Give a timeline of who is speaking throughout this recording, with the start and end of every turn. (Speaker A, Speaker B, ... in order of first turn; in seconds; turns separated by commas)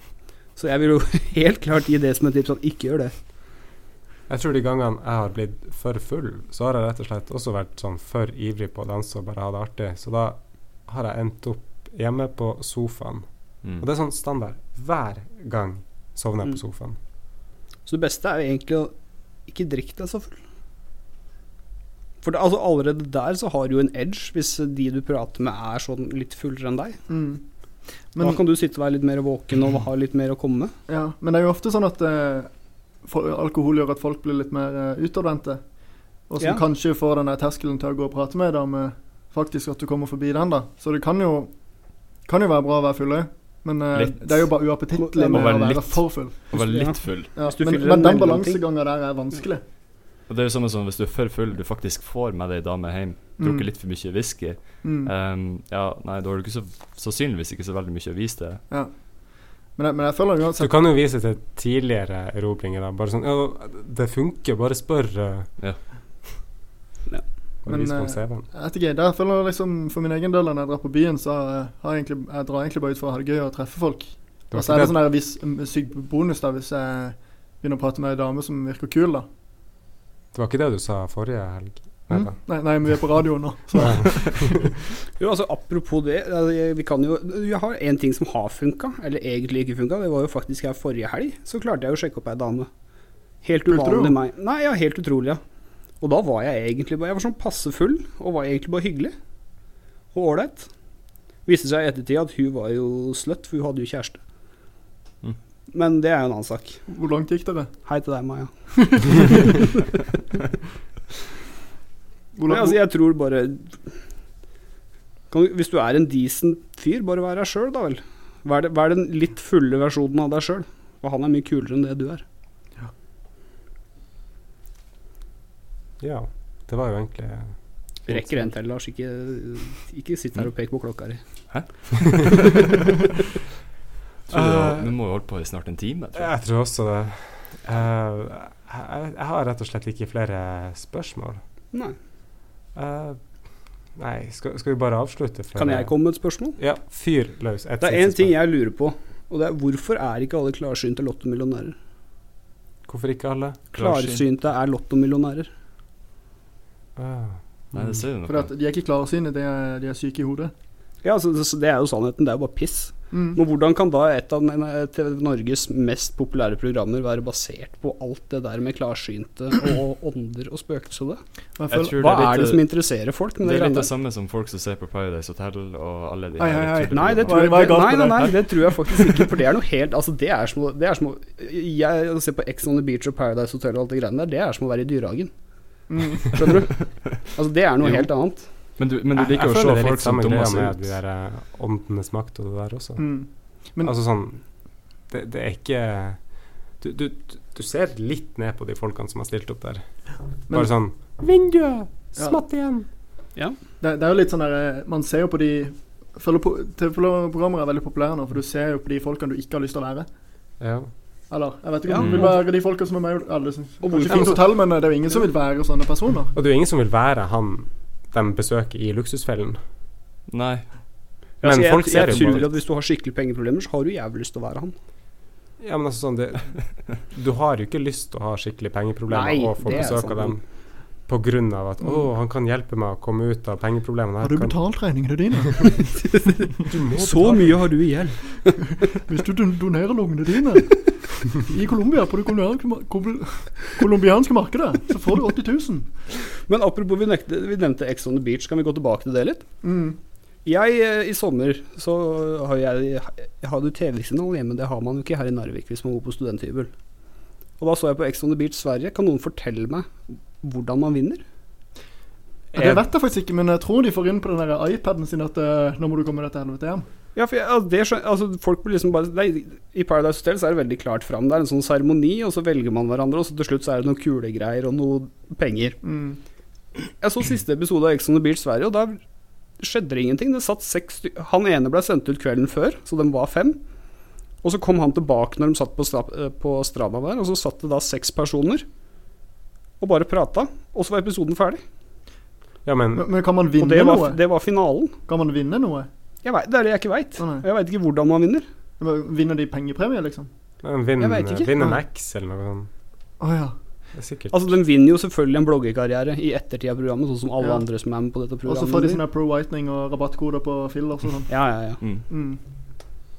Speaker A: 0.6-3.1, Speaker B: 4.3-13.2, Speaker B: 13.8-17.0, Speaker A: 17.9-18.9, Speaker A: 19.5-20.3, Speaker A: 22.2-27.0, Speaker C: 27.1-27.4, Speaker C: 28.1-28.4, Speaker A: 28.2-30.7, Speaker C: 30.9-32.5, Speaker C: 33.0-35.6, Speaker C: 36.3-41.5, Speaker C: 42.3-46.4, Speaker D: 43.9-44.5, Speaker A: 44.9-45.6, Speaker D: 45.3-47.3, Speaker A: 46.5-48.6, Speaker C: 47.3-49.6, Speaker D: 50.3-58.6, Speaker C: 53.4-53.7, Speaker C: 54.8-55.1, Speaker C: 58.7-59.0, Speaker C: 59.7-60.8, Speaker B: 60.6-65.5, Speaker B: 67.7-68.5, Speaker C: 67.7-79.3, Speaker B: 74.5-75.0, Speaker B: 80.3-82.3, Speaker C: 82.1-84.7, Speaker B: 83.7-84.7, Speaker A: 85.2-92.7, Speaker A: 93.4-95.4, Speaker C: 93.7-94.2, Speaker A: 96.0-99.1, Speaker A: 100.1-100.7, Speaker A: 101.5-104.2, Speaker A: 105.7-106.8, Speaker C: 106.9-107.7, Speaker A: 107.8-108.5, Speaker C: 108.8-109.6, Speaker A: 109.1-109.4, Speaker C: 112.3-112.8, Speaker A: 112.5-113.8, Speaker A: 115.3-122.2, Speaker B: 126.0-127.5, Speaker A: 128.1-131.2, Speaker B: 128.1-128.5, Speaker D: 131.5-132.8, Speaker D: 134.3-136.3, Speaker B: 134.3-134.9, Speaker B: 136.2-141.4, Speaker B: 142.7-143.2, Speaker B: 144.0-145.9, Speaker A: 145.6-146.6, Speaker B: 146.6-148.4, Speaker A: 147.8-151.7, Speaker B: 152.9-153.6, Speaker D: 153.7-154.2, Speaker A: 153.7-155.5, Speaker B: 156.9-158.0, Speaker D: 157.7-158.5, Speaker C: 158.2-160.5, Speaker A: 161.0-171.2, Speaker C: 163.1-163.4, Speaker C: 171.6-172.1, Speaker D: 171.7-172.7, Speaker A: 171.9-173.9, Speaker D: 173.4-177.8, Speaker C: 176.4-178.5, Speaker A: 176.9-185.3, Speaker C: 185.9-186.4, Speaker A: 186.3-188.4, Speaker D: 188.8-190.9, Speaker B: 189.1-193.1, Speaker C: 193.0-193.9, Speaker B: 193.8-194.4, Speaker B: 195.1-196.2, Speaker B: 196.8-199.8, Speaker B: 200.5-202.8, Speaker C: 203.8-210.1, Speaker B: 210.6-210.9, Speaker C: 211.3-216.3, Speaker A: 211.9-212.3, Speaker D: 212.0-212.3, Speaker A: 213.8-214.4, Speaker B: 216.3-219.6, Speaker D: 220.3-220.7, Speaker B: 221.4-222.5, Speaker A: 221.4-224.7, Speaker B: 225.6-230.4, Speaker A: 229.1-230.4, Speaker B: 231.1-234.6, Speaker C: 234.2-236.0, Speaker A: 236.1-238.6, Speaker B: 236.7-237.6, Speaker C: 239.1-245.9, Speaker A: 246.4-249.4, Speaker C: 249.6-250.0, Speaker A: 250.4-256.7, Speaker A: 257.6-259.9, Speaker A: 260.4-261.2, Speaker B: 262.5-262.8, Speaker C: 262.5-266.8, Speaker A: 267.1-275.8, Speaker C: 275.8-276.2, Speaker A: 277.0-279.0, Speaker A: 279.6-283.6, Speaker A: 284.4-288.6, Speaker A: 289.8-291.6, Speaker B: 292.6-293.2, Speaker C: 292.9-294.2, Speaker A: 293.6-294.9, Speaker C: 295.1-295.9, Speaker A: 296.2-298.4, Speaker C: 297.2-297.4, Speaker C: 298.8-300.3, Speaker B: 300.6-302.7, Speaker A: 301.0-301.5, Speaker C: 303.2-303.5, Speaker B: 303.9-304.4, Speaker A: 304.3-309.0, Speaker C: 308.4-311.3, Speaker A: 311.3-311.8, Speaker C: 312.1-312.4